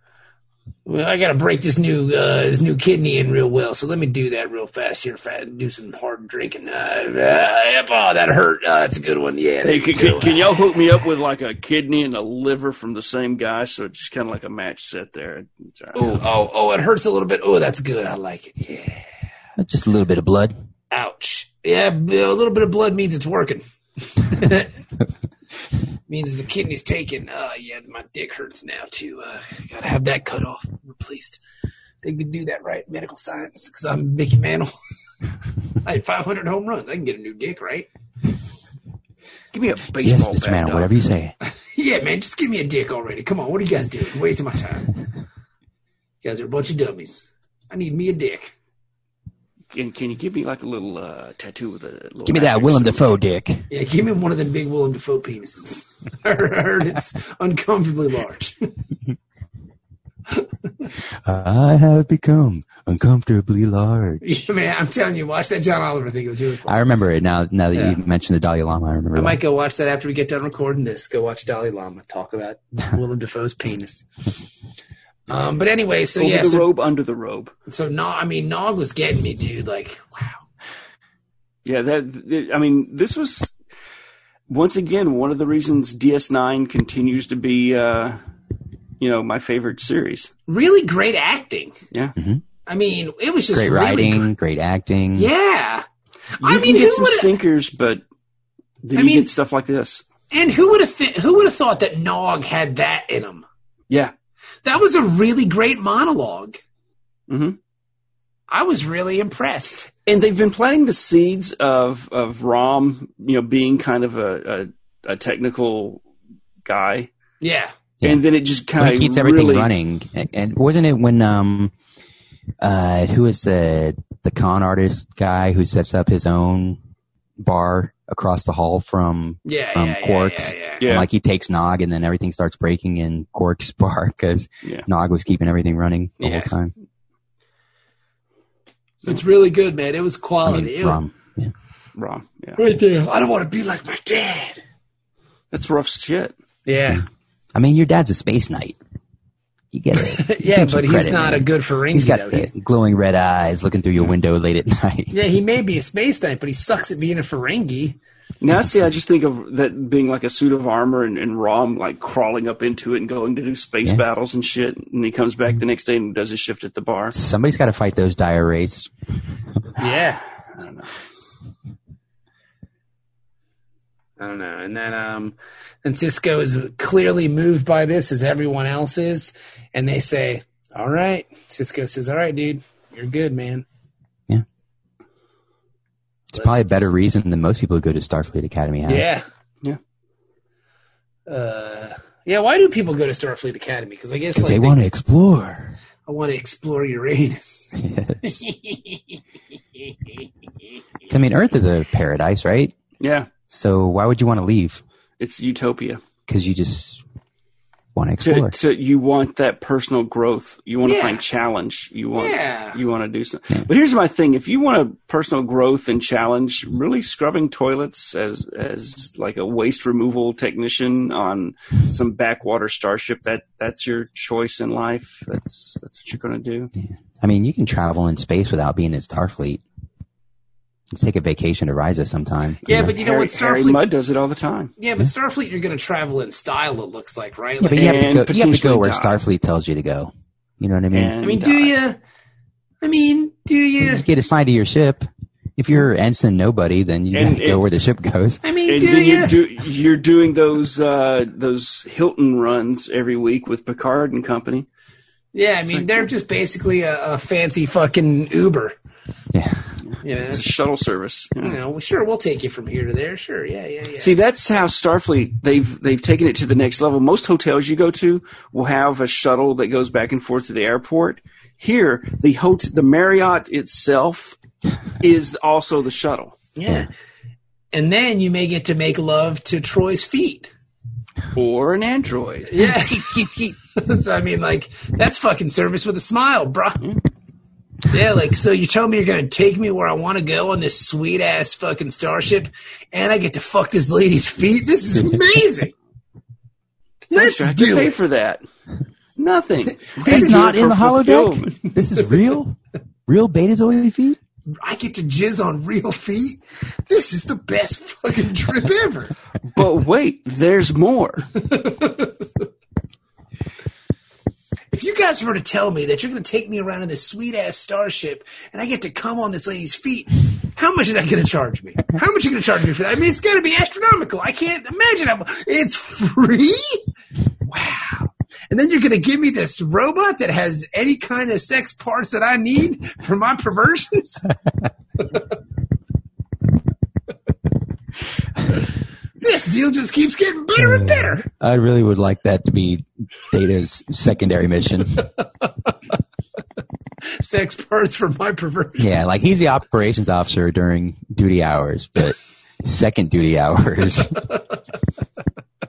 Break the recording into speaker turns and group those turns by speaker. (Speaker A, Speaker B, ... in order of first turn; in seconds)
Speaker A: 0.8-10.6, 15.9-19.0, 20.9-23.6, 24.1-24.7, 26.1-31.4, 32.0-34.7, 35.8-37.9, 41.7-44.9, 46.2-48.5, 53.7-58.7, 60.4-60.9, 64.2-66.8, 67.7-68.0, 69.1-74.0, 75.3-76.7, 77.7-80.4, 90.5-91.8, 92.7-94.3, 95.1-95.8, 96.4-97.3, 98.9-99.3, 100.3-103.4, 104.6-106.6, 108.5-109.9, 117.4-117.7, 129.4-130.8, 136.2-136.5, 139.0-141.0, 142.6-144.6, 146.7-147.1, 150.1-152.5, 155.1-158.0, 169.8-170.2, 174.2-183.6, 186.4-186.6, 188.8-189.2, 191.3-194.8, 196.1-197.7, 198.2-199.0, 210.8-211.2, 212.2-212.8, 232.7-233.8, 234.8-238.2, 241.2-242.0, 242.8-244.1, 248.4-249.4, 255.3-258.7, 260.0-260.4, 261.4-264.1, 276.6-276.9, 277.7-280.5, 282.5-286.8, 287.9-295.7, 297.1-297.9, 299.8-300.5, 304.6-309.1, 311.4-312.3, 314.7-326.8, 327.4-334.3, 339.2-341.2, 347.1-349.2
Speaker B: 9.6-16.2, 39.5-40.9, 49.7-53.0, 76.2-77.5, 81.6-83.5, 84.5-88.2, 89.0-90.3, 96.4-98.0, 98.8-100.0, 107.3-107.6, 110.0-116.0, 116.6-117.1, 118.0-119.7, 130.8-131.1, 141.9-142.6, 145.5-146.3, 158.4-167.2, 170.5-170.9, 203.0-203.3, 205.2-206.0, 208.2-226.7, 232.6-234.7, 237.7-239.2, 240.9-241.7, 247.1-247.6, 248.7-254.7, 255.7-256.1, 259.9-261.6, 264.0-274.4, 275.0-276.4, 281.3-282.7, 297.1-298.4, 299.2-301.6, 309.5-311.3
Speaker C: 19.6-20.5, 40.0-41.3, 52.2-53.6, 61.1-64.4, 66.7-69.4, 92.2-92.4, 93.5-95.3, 118.8-121.7, 122.6-126.8, 127.4-136.7, 140.4-141.5, 147.5-148.8, 149.7-155.2, 167.1-168.9, 186.3-189.1, 194.3-195.8, 197.7-198.4, 201.1-202.7, 203.5-204.8, 206.3-207.0, 207.9-208.5, 226.8-229.6, 230.9-232.9, 237.6-241.2, 243.8-248.4, 259.3-259.7, 300.0-304.2, 340.6-345.1, 348.8-354.2